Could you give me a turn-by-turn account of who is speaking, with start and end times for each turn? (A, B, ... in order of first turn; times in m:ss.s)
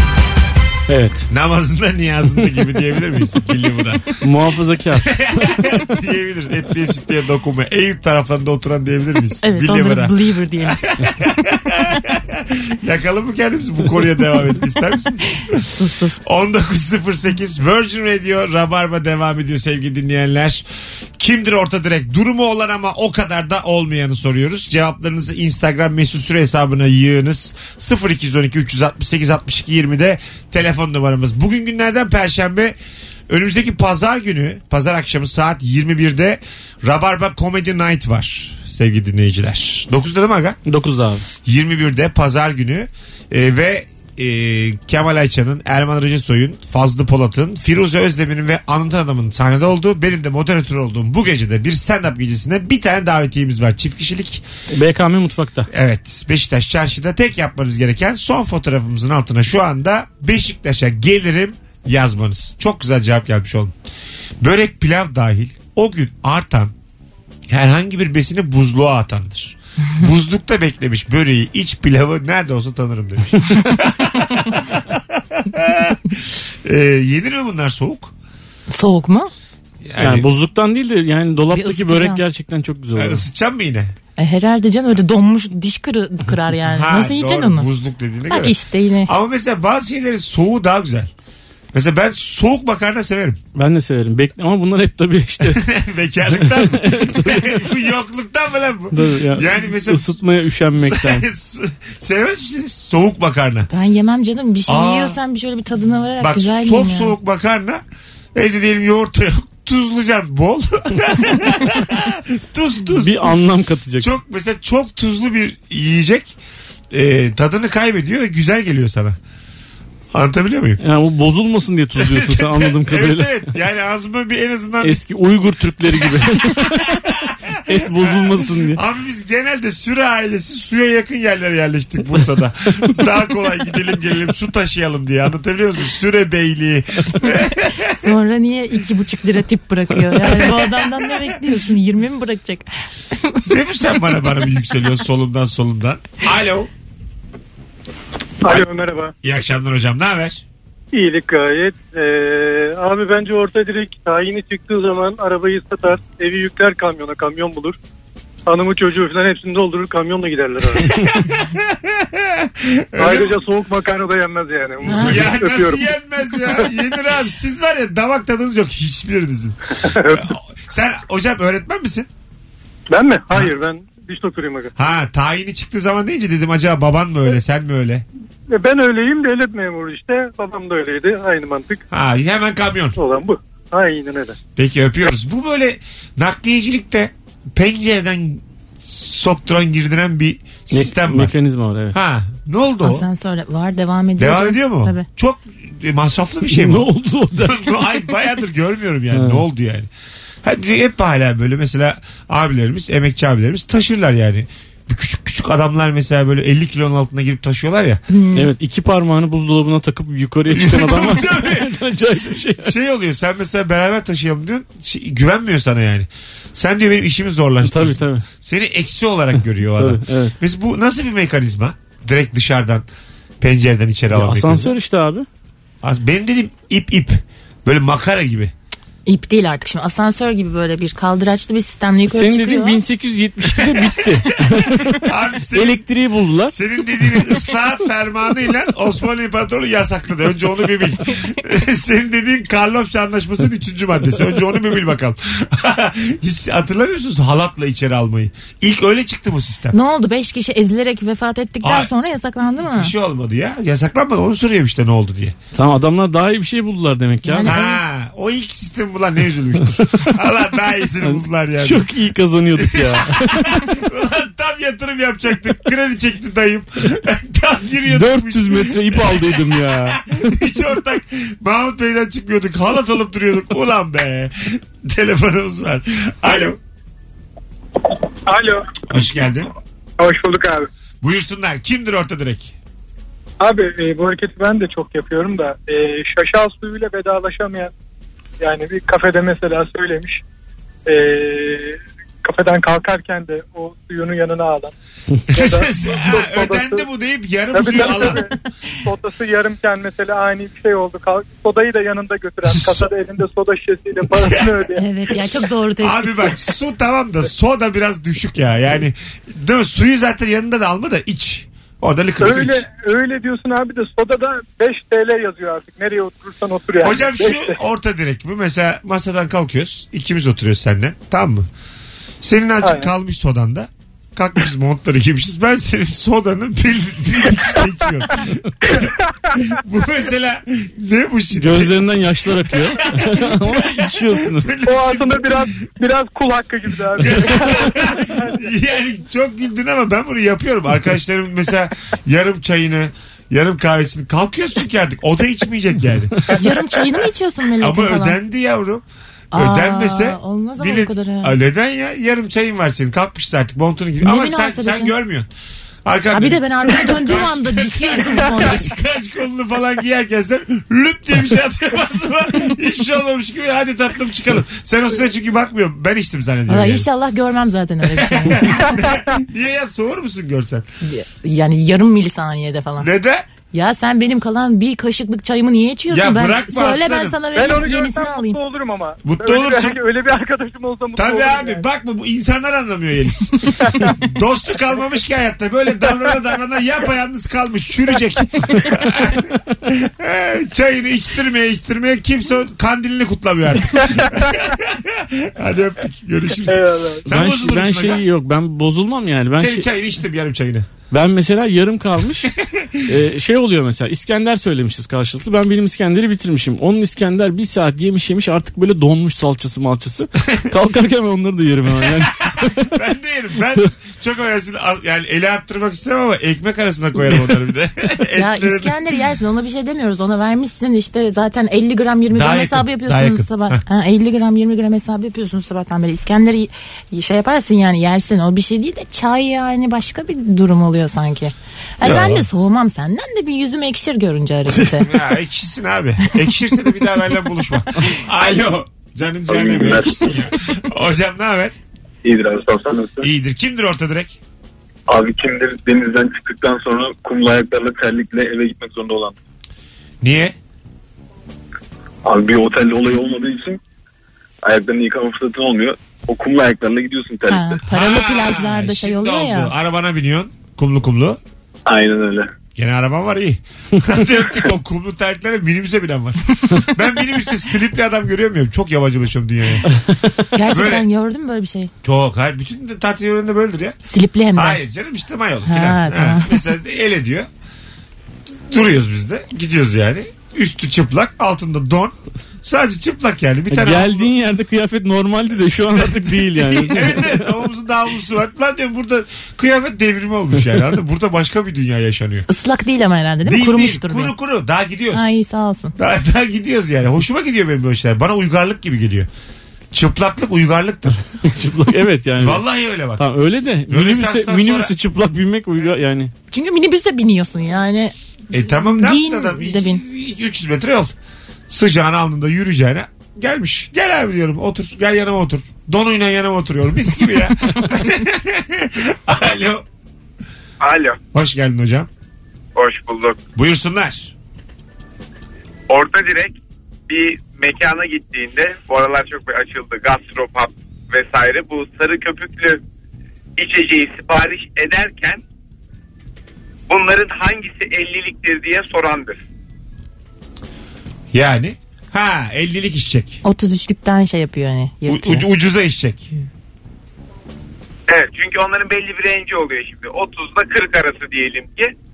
0:00.9-0:01.3 A
0:01.3-0:04.2 B
0:04.2-0:05.7 A
0:05.0-0:20.6 B
0:09.4-0:10.8 C
0:11.7-0:12.0 C
0:15.7-0:16.2 C
0:21.2-0:32.8 B
0:33.3-0:40.6 B
0:40.7-0:41.2 A
0:41.4-0:54.4 B
0:54.7-0:55.7 A
0:55.7-1:03.7 B
1:04.4-1:06.7 B
1:07.5-1:18.1 B
1:18.7-1:19.3 C
1:19.8-1:20.3 B
1:20.0-1:23.2 A
1:21.5-1:22.2 C
1:23.0-1:23.9 B
1:24.2-1:27.7 C
1:26.8-1:31.1 B
1:28.3-1:29.1 C
1:31.7-1:33.4 B
1:33.6-1:35.6 A
1:35.4-1:40.2 B
1:36.4-1:37.7 A
1:38.9-1:41.3 A
1:40.8-1:43.7 B
1:43.7-1:47.2 C
1:44.7-1:45.2 B
1:46.2-1:47.8 B
1:48.4-1:53.4 B
1:53.0-1:54.1 A
1:54.0-1:56.4 B
1:56.9-1:59.2 B
2:00.1-2:00.8 B
2:00.8-2:03.4 A
2:02.0-2:05.0 B
2:04.8-2:07.1 A
2:06.0-2:18.1 B
2:07.7-2:08.8 A
2:17.9-2:23.4 C
2:20.2-2:21.3 B
2:23.5-2:26.7 B
2:28.4-2:29.1 D
2:29.2-2:30.4 B
2:30.9-2:37.8 D
2:38.5-2:41.1 D
2:41.4-2:43.4 B
2:43.0-2:45.8 D
2:44.8-2:52.1 B
2:44.9-2:45.2 C
2:49.8-2:50.3 D
2:52.9-2:54.7 D
2:54.8-2:58.0 B
2:58.5-3:01.8 D
3:01.9-3:03.0 B
3:03.0-3:04.4 D
3:04.6-3:11.3 B
3:10.7-3:12.0 A
3:11.9-3:13.1 B
3:12.8-3:15.1 C
3:14.2-3:19.9 B
3:16.5-3:17.9 A
3:19.1-3:19.4 A
3:20.4-3:28.0 B
3:28.1-3:28.5 C
3:28.4-3:32.7 A
3:30.5-3:42.9 B
3:37.6-3:38.2 A
3:39.8-3:40.4 A
3:43.4-3:44.7 B
3:44.1-3:45.3 A
3:45.8-3:48.5 B
3:49.1-3:52.8 C
3:52.1-3:56.6 A
3:53.5-3:54.4 B
3:55.0-3:55.8 B
3:56.5-4:09.8 B
4:09.7-4:12.9 C
4:11.6-4:11.9 B
4:12.6-4:15.4 B
4:15.6-4:17.5 A
4:17.3-4:17.8 C
4:17.4-4:21.9 B
4:21.0-4:23.8 A
4:22.6-4:36.6 B
4:27.9-4:30.3 A
4:38.3-4:38.8 D
4:38.9-4:39.5 B
4:40.0-4:40.7 D
4:41.0-4:42.6 B
4:43.4-4:47.7 D
4:48.4-4:50.2 D
4:50.9-4:54.7 D
4:55.3-4:56.9 D
4:55.3-4:58.3 B
4:57.5-5:04.8 D
5:02.5-5:02.9 B
5:04.2-5:04.5 B
5:04.8-5:06.4 C
5:05.8-5:12.7 B
5:12.2-5:17.6 D
5:16.8-5:21.5 B
5:22.2-5:31.7 B
5:22.6-5:22.9 D
5:31.4-5:34.5 A
5:32.5-5:35.5 B
5:34.6-5:38.3 D
5:37.0-5:46.6 B
5:46.3-5:48.2 C
5:47.6-5:55.3 B
5:49.3-5:51.4 C
5:54.0-5:54.9 C
5:55.8-6:06.9 B
5:56.1-5:58.7 C
6:06.5-6:08.8 C
6:07.9-6:10.7 B
6:10.8-6:12.9 C
6:12.8-6:13.3 B
6:13.5-6:18.4 C
6:15.9-6:17.2 B
6:17.4-6:21.6 D
6:19.0-6:19.8 B
6:21.0-6:38.0 B
6:23.6-6:24.0 D
6:34.0-6:34.3 D
6:36.5-6:37.0 D
6:37.1-6:39.7 A
6:39.4-6:40.7 B
6:40.9-6:42.3 A
6:42.3-6:42.9 B
6:42.9-6:52.8 A
6:52.6-6:58.8 B
6:58.2-7:14.9 C
7:02.1-7:03.6 B
7:11.8-7:12.3 B
7:14.8-7:21.6 B
7:19.3-7:20.2 E
7:22.0-7:23.1 E
7:23.0-7:24.2 B
7:24.9-7:29.2 E
7:30.0-7:30.4 B
7:32.0-7:33.6 E
7:34.4-7:37.6 E
7:37.3-7:39.5 C
7:37.7-7:41.2 B
7:41.7-7:42.3 E
7:42.6-7:49.7 B
7:50.3-7:51.7 C
7:50.5-7:50.9 B
7:51.8-7:53.8 B
7:53.9-7:54.6 C
7:54.4-7:57.3 B
7:55.5-7:56.4 C
7:58.5-8:04.1 B
8:03.5-8:07.1 A
8:06.4-8:12.3 B
8:12.3-8:14.1 C
8:13.2-8:15.1 B
8:14.9-8:15.7 C
8:15.8-8:19.1 B
8:19.7-8:21.0 B
8:21.2-8:22.4 A
8:22.2-8:23.1 B
8:23.0-8:26.1 A
8:23.7-8:24.7 B
8:26.3-8:28.0 C
8:28.3-8:31.0 B
8:28.6-8:29.8 C
8:31.5-8:39.7 B
8:40.6-8:41.0 F
8:41.1-8:41.9 B
8:42.6-8:43.2 F
8:43.4-8:44.1 B
8:45.7-8:46.4 F
8:46.9-8:52.6 F
8:53.4-8:55.2 F
8:56.7-8:59.2 F
9:01.1-9:03.2 B
9:03.2-9:05.3 C
9:04.9-9:06.1 B
9:07.9-9:11.7 F